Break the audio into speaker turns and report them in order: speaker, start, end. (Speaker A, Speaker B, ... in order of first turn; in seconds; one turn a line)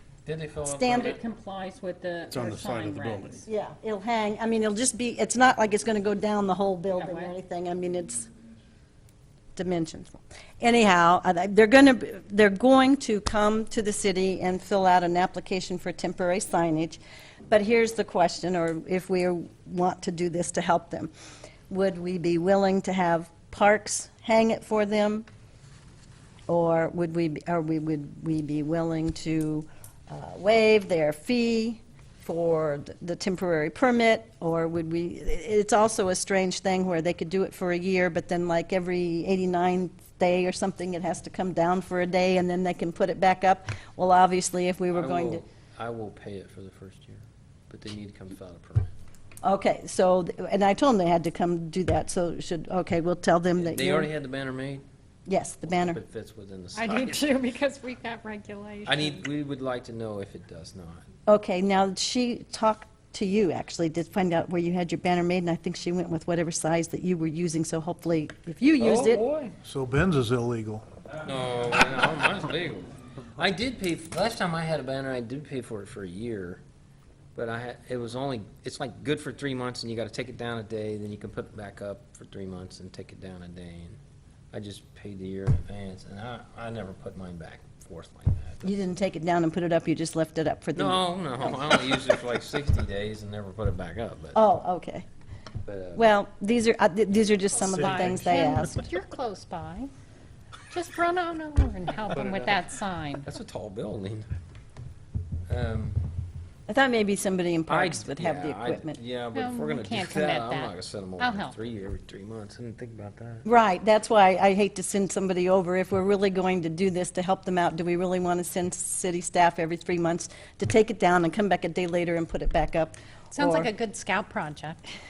Speaker A: 0.2-1.2
Speaker B: 0.7-1.2
Speaker C: 1.0-3.5
Speaker D: 2.3-3.5
Speaker B: 3.5-8.3
Speaker C: 6.9-7.3
Speaker B: 9.6-21.1
Speaker B: 21.7-25.3
Speaker B: 26.5-45.4
Speaker A: 44.9-48.9
Speaker B: 49.4-54.1
Speaker A: 53.6-54.9
Speaker B: 55.3-56.0
Speaker A: 55.6-57.3
Speaker C: 56.8-59.2
Speaker A: 58.9-61.0
Speaker B: 61.3-69.2
Speaker A: 68.8-69.5
Speaker D: 69.6-70.8
Speaker A: 71.2-76.6
Speaker A: 77.3-84.0
Speaker A: 84.5-88.8
Speaker B: 88.6-92.0
Speaker A: 90.8-94.4
Speaker B: 94.3-95.1
Speaker A: 95.7-96.1
Speaker B: 96.0-98.8
Speaker D: 97.5-98.7
Speaker C: 97.7-99.9
Speaker C: 100.7-103.3
Speaker A: 102.1-102.6
Speaker A: 103.2-104.3
Speaker A: 105.5-106.0
Speaker B: 106.7-109.0
Speaker A: 107.7-113.5
Speaker C: 109.3-111.6
Speaker B: 113.5-123.7
Speaker C: 123.3-124.8